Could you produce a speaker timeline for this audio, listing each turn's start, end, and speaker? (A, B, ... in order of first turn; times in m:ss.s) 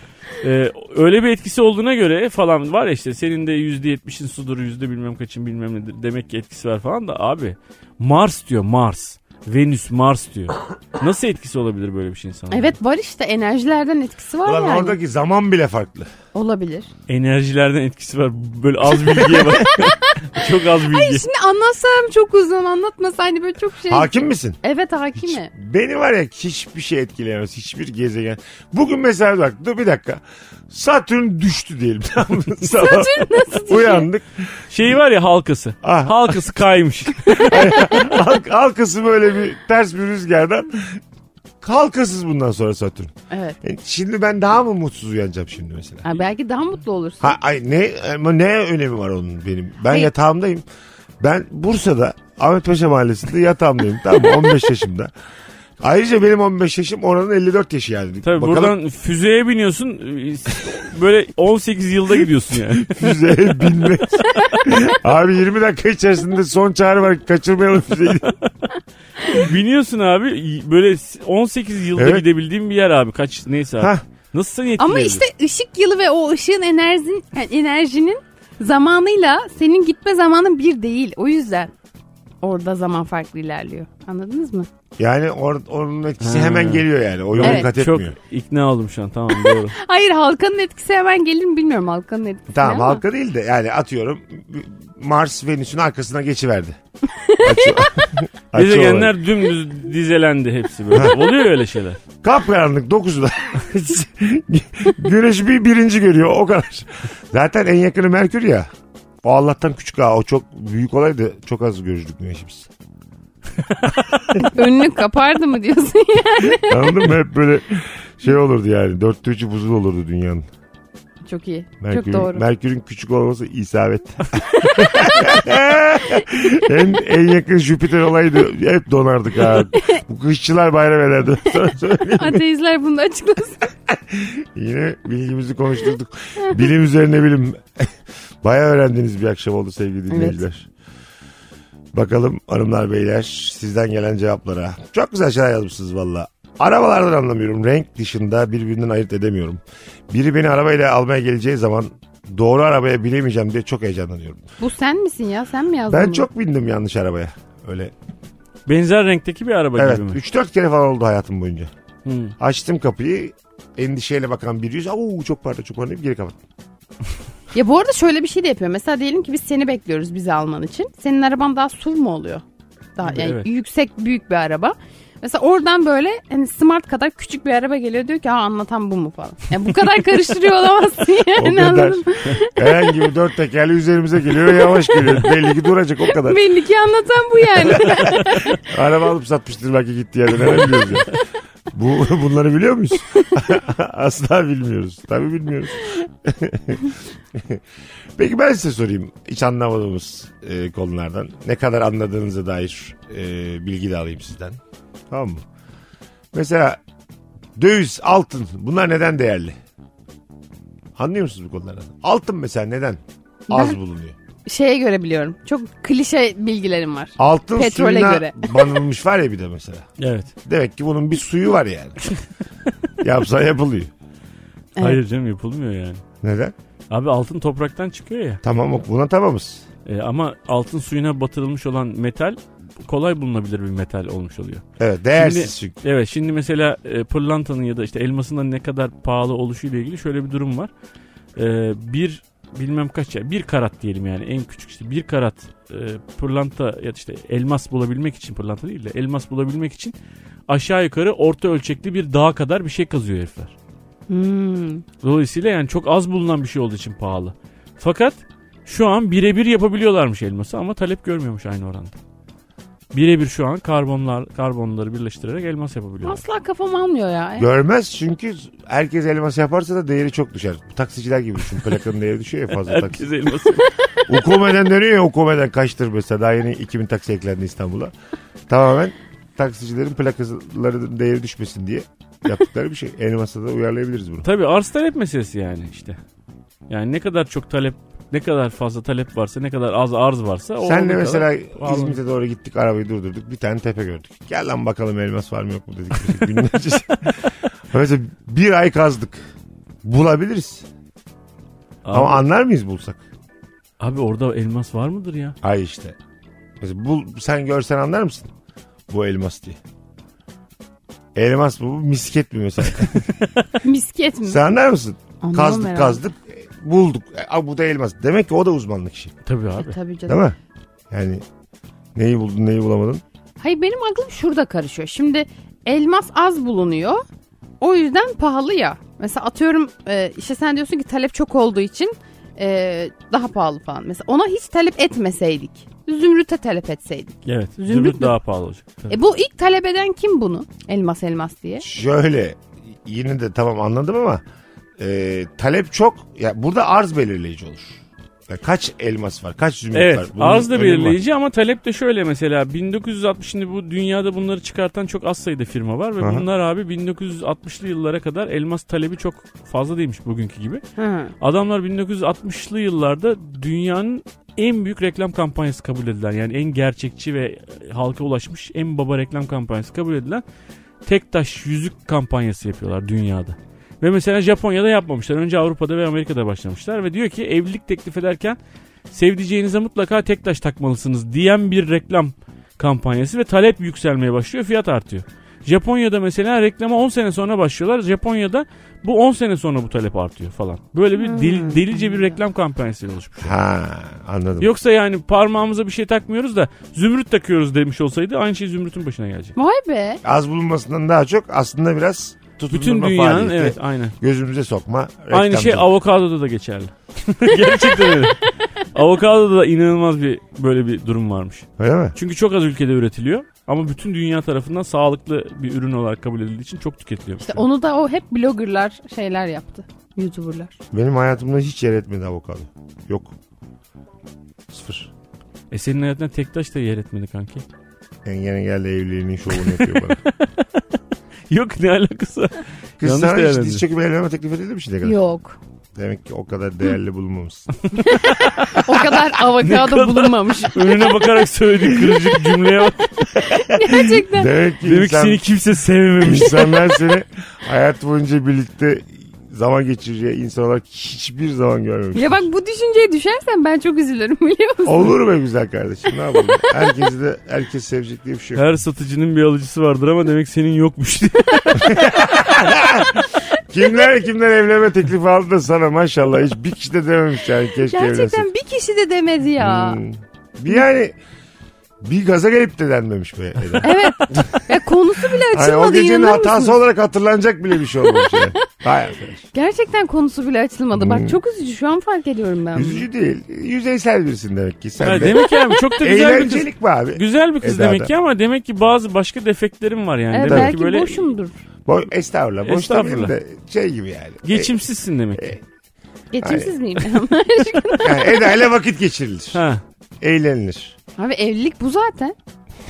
0:00.4-0:12.8 A
0:12.5-0:15.0 B
0:14.4-0:16.1 C
0:16.3-0:16.9 B
0:17.1-0:21.3 A
0:19.0-0:19.7 C
0:19.6-0:25.5 B
0:23.9-0:24.6 C
0:25.2-0:34.6 C
0:32.6-0:34.1 B
0:34.7-0:37.7 A
0:35.8-0:36.5 C
0:37.3-0:38.0 B
0:37.3-0:41.0 C
0:41.6-0:46.1 C
0:43.3-0:43.6 B
0:46.0-0:47.4 B
0:47.2-0:50.6 C
0:51.2-0:55.1 C
0:55.8-0:58.8 C
0:58.2-1:04.0 A
1:02.8-1:08.4 C
1:09.3-1:15.2 A
1:11.9-1:12.2 C
1:14.8-1:21.7 B
1:22.4-1:24.7 B
1:25.0-1:28.2 C
1:26.2-1:29.7 A
1:27.4-1:27.7 B
1:29.3-1:33.0 B
1:32.5-1:36.8 C
1:37.1-1:38.0 B
1:37.4-1:39.2 C
1:38.5-1:42.0 A
1:42.2-1:48.7 C
1:49.2-1:52.7 C
1:54.4-1:57.1 B
1:56.5-2:00.4 C
2:01.2-2:02.4 B
2:01.8-2:12.4 C
2:04.5-2:05.4 B
2:09.7-2:10.0 B
2:11.9-2:13.7 B
2:13.9-2:20.7 C
2:20.1-2:20.4 B
2:21.9-2:34.4 C
2:34.6-2:36.3 B
2:35.9-2:37.9 C
2:38.7-2:40.2 A
2:39.7-2:41.7 C
2:42.0-2:42.3 A
2:42.4-2:46.4 C
2:47.5-2:52.4 B
2:53.0-3:03.0 B
2:53.0-2:53.4 A
3:01.4-3:06.4 C
3:04.6-3:05.2 B
3:06.0-3:08.6 B
3:08.6-3:11.1 C
3:11.7-3:17.6 C
3:18.2-3:25.4 C
3:26.3-3:26.8 C
3:27.6-3:29.6 C
3:31.0-3:34.2 C
3:33.5-3:33.8 B
3:34.4-3:38.8 B
3:37.2-3:39.9 C
3:40.0-3:40.3 A
3:40.4-3:42.0 C
3:43.0-3:43.9 C
3:44.8-3:46.0 A
3:46.2-3:46.5 C
3:46.9-3:48.4 A
3:48.4-3:49.6 C
3:49.8-3:54.6 A
3:54.8-3:55.8 C
3:55.1-4:00.7 A
4:01.4-4:09.9 A
4:10.5-4:13.5 A
4:14.1-4:14.8 B
4:15.0-4:22.0 A
4:22.9-4:26.2 A
4:26.0-4:27.5 B
4:27.4-4:33.1 C
4:32.6-4:33.7 A
4:34.1-4:37.9 C
4:38.5-4:44.3 C
4:44.2-4:46.0 A
4:46.7-4:52.0 A
4:50.6-4:59.3 C
4:59.8-5:00.6 C
5:01.8-5:02.2 A
5:01.9-5:03.0 C
5:03.8-5:05.4 A
5:05.4-5:06.0 C
5:06.6-5:08.3 C
5:08.9-5:09.6 C
5:11.1-5:13.2 C
5:13.6-5:14.4 B
5:14.2-5:19.1 C
5:15.2-5:16.0 B
5:19.2-5:19.8 A
5:19.6-5:20.2 B
5:20.1-5:20.4 C
5:20.9-5:21.2 C
5:21.9-5:23.0 C
5:23.4-5:27.0 B
5:27.6-5:38.1 B
5:37.2-5:38.9 A
5:38.9-5:41.6 B
5:41.6-5:44.2 C
5:44.8-5:51.0 C
5:49.7-6:00.6 A
5:56.0-5:56.3 C
6:00.8-6:01.1 B
6:01.2-6:10.2 A
6:10.8-6:18.4 A
6:18.9-6:33.3 A
6:31.0-6:32.1 B
6:33.2-6:34.5 C
6:34.4-6:39.3 A
6:39.4-6:40.0 B
6:40.0-6:45.7 C
6:42.5-6:44.0 A
6:45.1-6:57.4 A
6:47.7-6:48.2 B
6:51.6-6:52.0 C
6:57.2-7:00.5 B
7:00.7-7:03.1 C
7:04.5-7:04.9 C
7:05.5-7:07.4 A
7:08.0-7:10.0 C
7:09.3-7:10.4 A
7:11.3-7:13.6 A
7:12.8-7:15.0 C
7:14.8-7:15.4 B
7:15.7-7:17.5 C
7:17.8-7:21.0 B
7:17.8-7:23.1 A
7:23.2-7:24.3 B
7:23.6-7:25.2 C
7:24.6-7:26.8 A
7:26.0-7:32.2 C
7:31.9-7:34.9 B
7:34.6-7:38.4 C
7:38.3-7:41.8 A
7:41.6-7:48.3 C
7:47.6-7:49.8 B
7:49.4-7:51.0 C
7:51.8-7:54.4 C
7:53.6-7:56.6 B
7:55.2-7:59.2 C
7:57.9-7:58.4 B
7:59.3-8:02.8 B
8:00.7-8:01.2 C
8:02.5-8:07.9 C
8:04.8-8:11.1 A
8:04.9-8:05.7 B
8:10.1-8:11.4 B
8:10.2-8:10.6 C
8:11.6-8:14.5 C
8:12.4-8:13.1 A
8:14.2-8:15.4 A
8:15.1-8:15.4 C
8:16.1-8:18.4 B
8:16.2-8:16.5 C
8:17.8-8:19.4 C
8:19.3-8:19.6 A
8:20.0-8:20.7 C
8:21.0-8:22.2 B